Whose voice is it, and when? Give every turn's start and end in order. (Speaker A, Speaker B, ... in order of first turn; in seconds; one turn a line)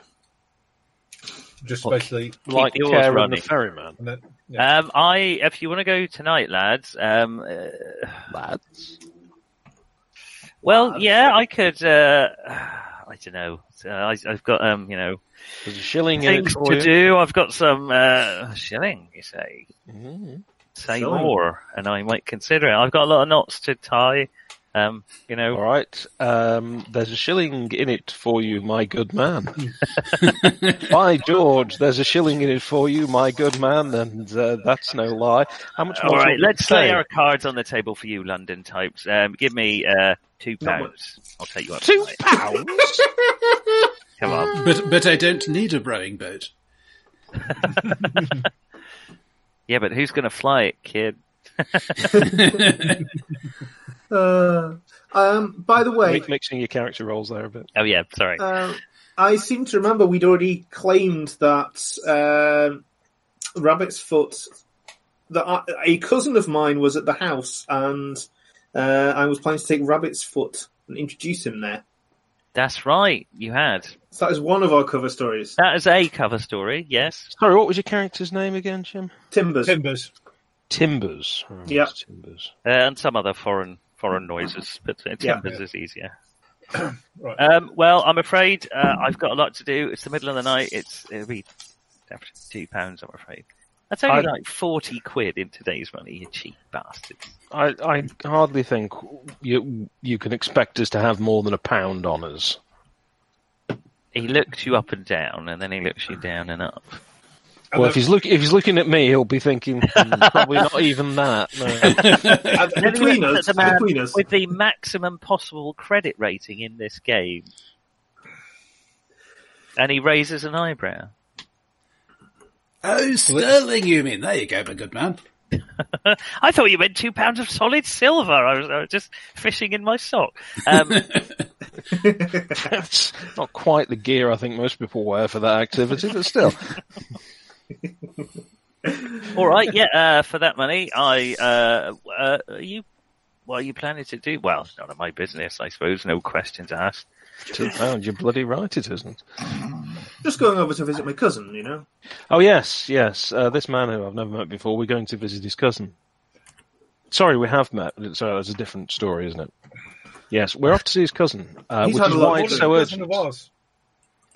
Speaker A: 1.6-2.4
Speaker B: 2.5-4.0
Speaker C: 2.5-3.5
Speaker A: 4.0-4.7
Speaker C: 4.6-8.2
Speaker B: 8.3-8.9
Speaker C: 10.6-15.2
Speaker D: 10.7-11.0
Speaker B: 15.6-16.9
Speaker C: 16.2-19.7
Speaker B: 19.9-20.4
Speaker C: 20.8-25.6
Speaker D: 20.9-21.4
Speaker B: 25.5-29.7
Speaker E: 30.2-30.9
Speaker B: 30.8-37.0
Speaker C: 35.9-42.2
Speaker D: 40.6-40.9
Speaker B: 41.8-43.1
Speaker C: 44.2-44.5
Speaker E: 44.5-46.5
Speaker C: 47.6-48.0
Speaker C: 49.7-52.3
Speaker D: 52.1-52.4
Speaker E: 52.2-53.0
Speaker D: 54.1-56.3
Speaker B: 56.0-57.7
Speaker C: 57.8-58.5
Speaker D: 58.4-62.8
Speaker D: 63.6-64.5
Speaker D: 65.3-71.8
Speaker C: 72.5-74.0
Speaker D: 74.1-75.6
Speaker C: 75.6-77.3
Speaker B: 77.3-79.1
Speaker D: 79.3-79.8
Speaker A: 79.7-80.1
Speaker B: 80.7-82.5
Speaker D: 81.7-81.9
Speaker C: 82.7-86.1
Speaker A: 86.8-87.4
Speaker C: 87.4-91.5
Speaker C: 92.1-97.3
Speaker B: 97.5-102.6
Speaker C: 104.1-107.0
Speaker A: 107.7-108.0
Speaker B: 107.8-112.3
Speaker C: 109.9-110.6
Speaker E: 111.9-112.6
Speaker D: 112.7-114.2
Speaker C: 112.8-117.5
Speaker C: 119.8-121.1
Speaker E: 122.8-125.2
Speaker C: 125.8-131.1
Speaker E: 130.9-131.4
Speaker D: 131.9-132.6
Speaker B: 132.5-136.8
Speaker D: 138.9-139.3
Speaker C: 139.3-142.8
Speaker C: 143.5-147.1
Speaker B: 147.5-149.2
Speaker D: 150.2-151.9
Speaker B: 152.3-155.9
Speaker B: 157.1-159.5
Speaker B: 160.3-163.2
Speaker D: 161.8-162.7
Speaker A: 161.8-163.5